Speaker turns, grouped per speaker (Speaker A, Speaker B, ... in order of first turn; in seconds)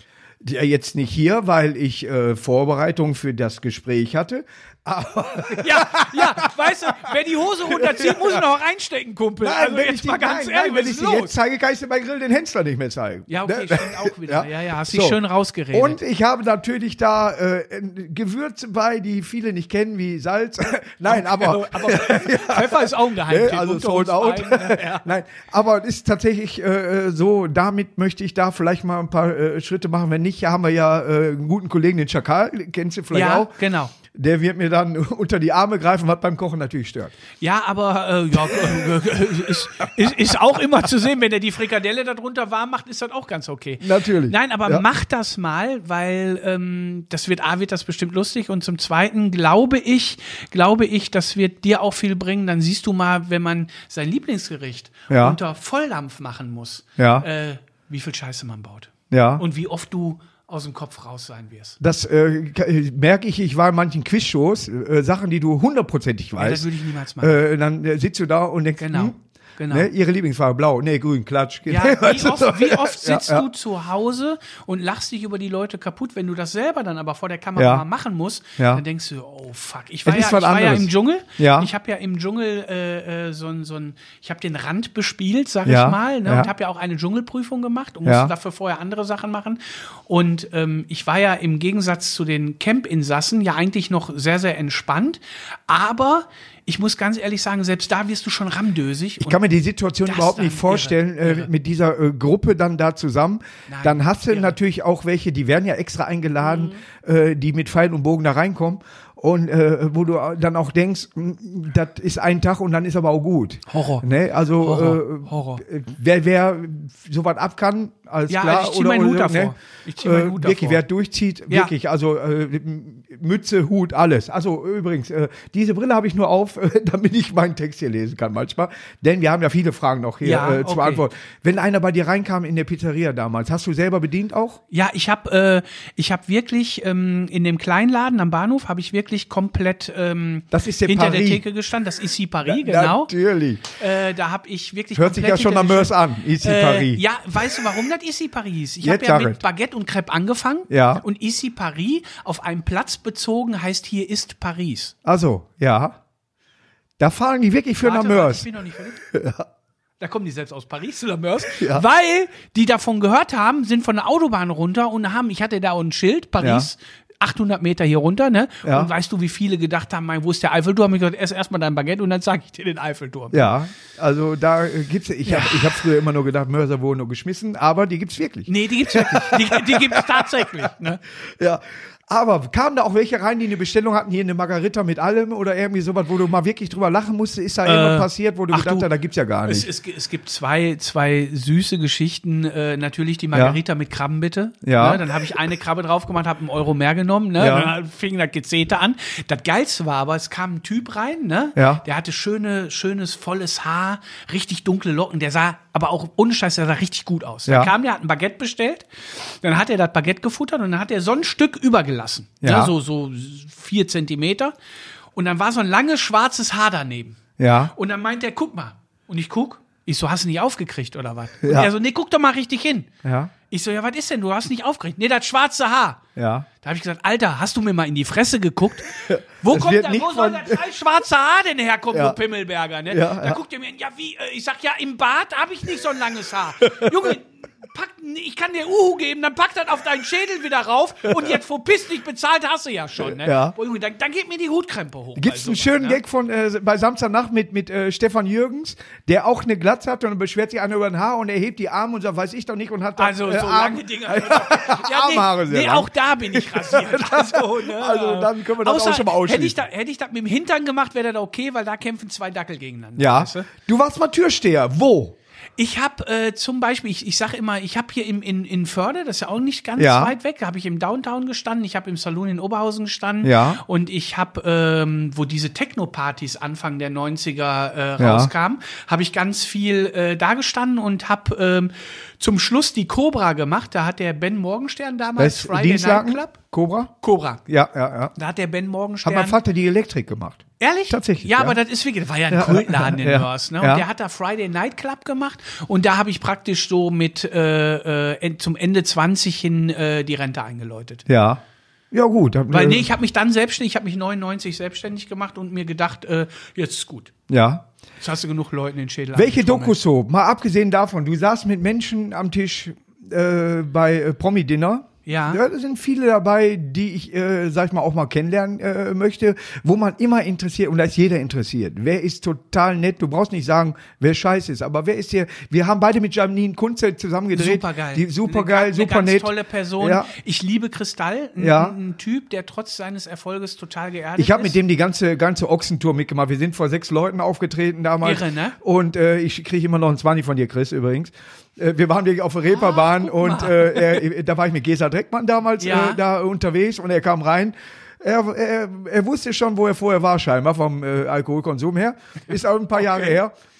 Speaker A: 0.4-8.4, 9.4-15.2, 15.7-33.5, 34.1-37.1, 38.5-38.8, 43.8-44.8, 55.1-55.4, 57.0-57.3, 59.1-59.4, 61.8-66.7, 67.2-69.2, 69.7-73.5, 77.5-77.8, 78.6-78.8, 80.0-81.7, 85.7-86.5, 88.0-88.3, 99.2-134.6, 140.5-141.4, 142.4-143.7, 144.9-147.0, 148.8-149.4, 150.7-151.0, 155.0-156.0, 157.0-158.4, 159.0-159.5, 161.4-161.8, 166.4-166.7, 168.6-168.9, 173.3-180.7, 181.4-189.7, 193.3-193.6, 194.6-195.0, 197.4-197.7, 201.6-201.8, 207.5-207.7, 212.4-212.7, 217.4-217.7, 221.4-221.7, 223.0-223.3, 226.2-226.5, 229.0-230.6, 231.9-232.2, 232.9-233.4, 236.6-237.1, 243.0-243.5, 245.2-259.6, 263.0-265.1, 269.8-270.1, 273.2-273.6, 278.0-278.3, 285.2-286.9, 287.4-288.1, 289.0-291.6, 292.3-293.8, 301.1-301.4, 301.9-302.9, 307.3-307.6, 309.1-330.1, 331.4-331.7, 334.2-353.3
Speaker B: 5.5-11.3, 13.3-16.0, 21.1-25.1, 33.1-33.9, 37.4-61.8, 66.4-67.3, 68.8-69.9, 71.7-99.4, 100.0-101.5, 103.7-104.5, 106.4-106.8, 113.7-114.0, 114.6-115.6, 118.3-120.8, 130.2-131.0, 134.7-143.1, 143.7-154.9, 157.8-159.0, 160.0-173.5, 175.2-175.8, 178.5-181.0, 187.6-188.9, 189.4-214.5, 215.1-217.2, 217.7-222.9, 223.5-226.0, 226.6-246.0, 253.0-263.5, 265.6-286.4, 287.0-287.4, 288.1-289.4, 290.6-301.0, 302.5-307.1, 308.0-309.8, 315.1-315.4, 327.3-334.6, 338.0-338.6, 342.5-344.0, 345.6-346.0, 352.8-353.1